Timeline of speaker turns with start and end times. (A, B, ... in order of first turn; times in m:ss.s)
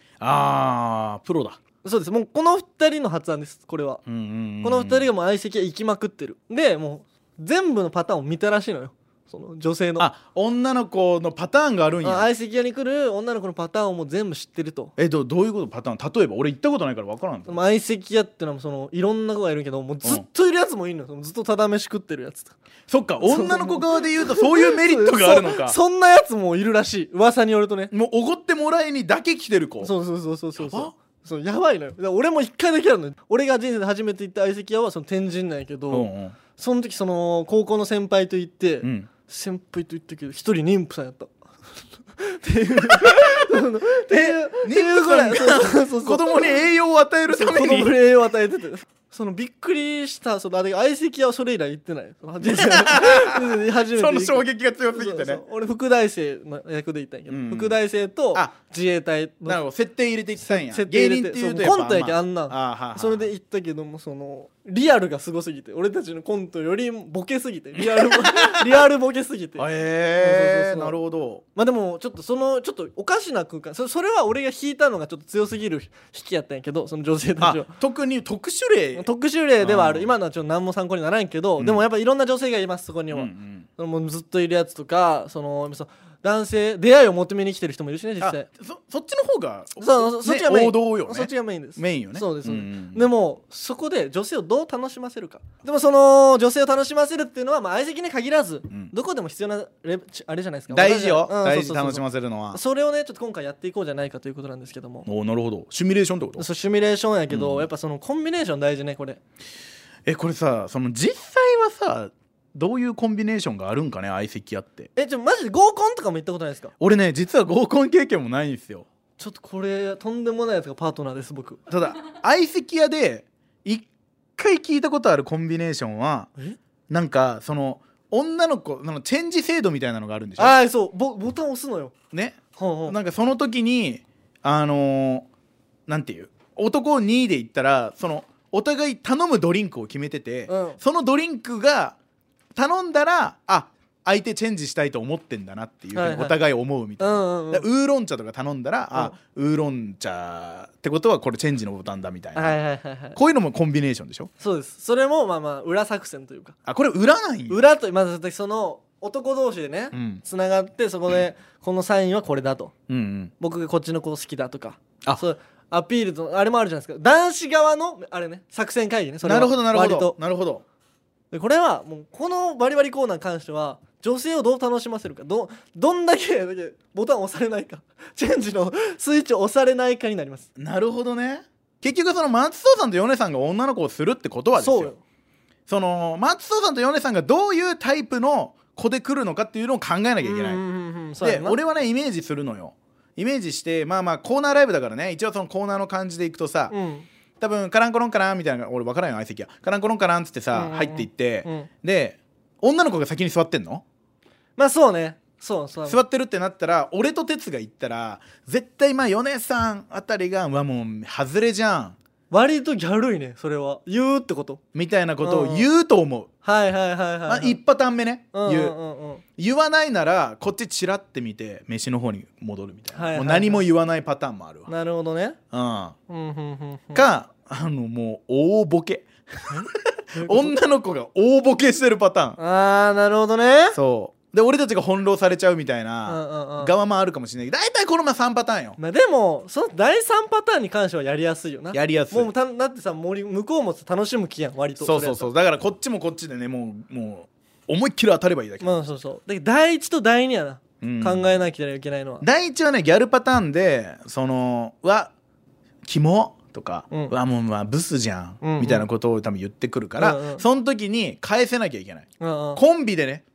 0:00.2-0:01.6 A
0:01.8-0:04.0 B
0:04.0-0:05.1 A
0:04.6-0:10.1 B
0:10.0-0:12.3 A
0:12.0-0:14.9 B
0:15.0-0:17.6 A
0:17.5-0:22.5 B
0:22.9-0:25.8 A
0:23.2-0:27.9 B
0:27.9-0:29.9 A
0:29.8-0:41.3 B
0:30.6-0:30.9 A
0:35.9-0:36.4 A
0:38.8-0:39.1 A
0:42.1-0:46.5 B
0:44.1-0:47.9 A
0:47.3-0:59.6 B
0:52.4-0:55.4 A
0:57.3-0:57.8 A
0:59.4-1:03.3 A
1:00.4-1:11.0 B
1:07.8-1:08.7 A
1:09.6-1:11.4 A
1:11.5-1:17.7 B
1:17.4-1:19.1 A
1:19.0-1:28.5 B
1:19.6-1:20.1 A
1:21.6-1:21.8 A
1:23.1-1:23.6 A
1:28.2-1:33.0 A
1:29.8-1:45.1 B
1:40.7-1:42.6 A
1:45.0-1:46.4 A
1:46.4-1:49.2 B
1:47.3-1:47.7 A
1:50.0-1:54.9 A
1:55.0-1:56.7 B
1:56.8-1:58.8 A
1:59.2-2:01.6 B
2:01.7-2:06.3 A
2:06.9-2:10.6 A
2:10.4-2:11.9 B
2:12.1-2:15.3 A
2:12.6-2:13.0 B
2:15.9-2:22.0 A
2:20.5-2:20.8 B
2:22.5-2:32.6 A
2:25.9-2:26.4 B
2:27.0-2:27.6 B
2:32.3-2:33.2 B
2:33.1-2:34.3 A
2:34.4-2:36.5 B
2:36.6-2:37.6 A
2:37.5-2:42.7 B
2:39.9-2:40.2 A
2:42.9-2:43.3 A
2:43.4-2:50.2 B
2:49.2-2:50.6 A
2:51.3-3:00.5 B
3:00.6-3:04.9 A
3:04.5-3:05.0 B
3:05.7-3:10.6 A
3:10.2-3:11.6 B
3:11.2-3:16.7 A
3:16.7-3:17.0 B
3:17.4-3:23.8 A
3:20.5-3:21.7 B
3:24.6-3:26.0 B
3:25.8-3:32.0 A
3:32.3-3:34.6 B
3:34.7-3:36.3 A
3:35.2-3:35.6 B
3:36.4-3:37.6 B
3:37.3-3:38.8 A
3:38.3-3:39.2 B
3:39.4-3:44.7 A
3:42.9-3:43.6 B
3:44.7-3:45.4 B
3:45.5-3:46.0 A
3:46.1-3:47.0 B
3:46.9-3:52.4 A
3:49.5-3:50.5 B
3:52.4-3:53.8 B
3:53.7-3:58.8 A
3:56.1-3:56.7 B
3:58.8-4:05.3 B
4:01.7-4:02.3 A
4:04.8-4:08.7 A
4:08.6-4:12.2 B
4:10.8-4:11.3 A
4:12.2-4:15.1 A
4:15.8-4:23.2 A
4:18.4-4:18.8 B
4:20.0-4:20.4 B
4:22.2-4:22.6 B